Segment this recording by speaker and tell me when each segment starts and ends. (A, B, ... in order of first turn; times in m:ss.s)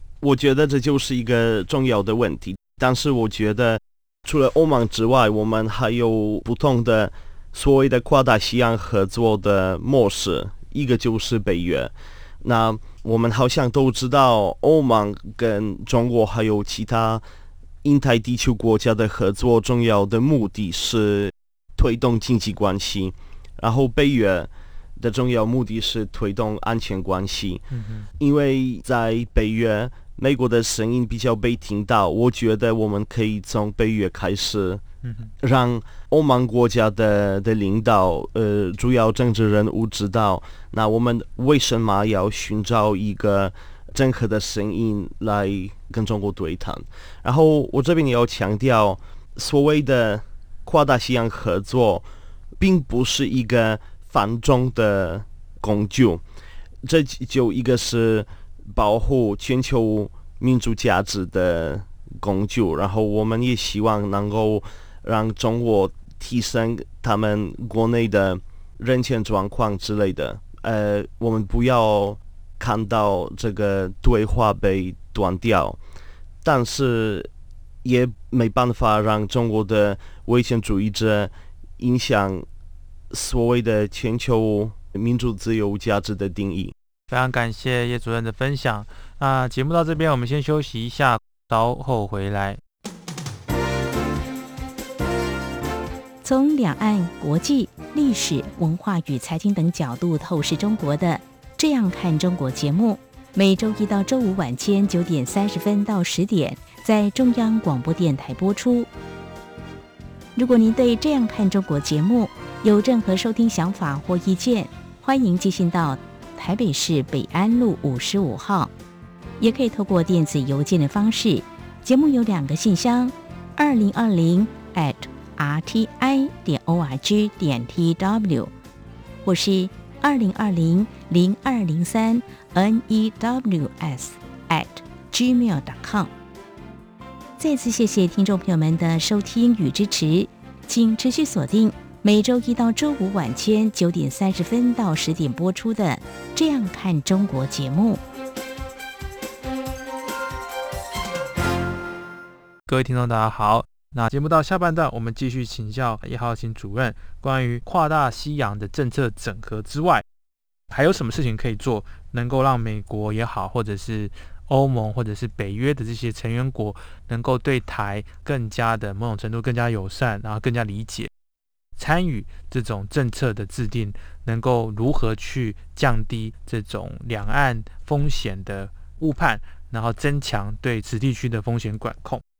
0:00.2-0:17.2 A
0:17.8-0:27.6 A
0:27.7-0:28.1 B
0:28.2-0:34.8 A
0:35.0-0:35.3 B
0:35.4-0:52.1 A
0:52.6-0:56.2 A
0:56.8-1:15.8 A
1:16.4-1:17.3 A
1:17.8-1:22.4 A
1:23.1-1:26.7 A
1:27.1-1:32.6 B
1:36.2-1:48.9 C
1:50.4-1:58.7 C
1:59.4-2:08.5 C
2:09.2-2:16.1 C
2:17.4-2:28.0 C
2:32.7-2:40.0 B
2:40.7-2:51.1 B
2:51.8-3:02.2 B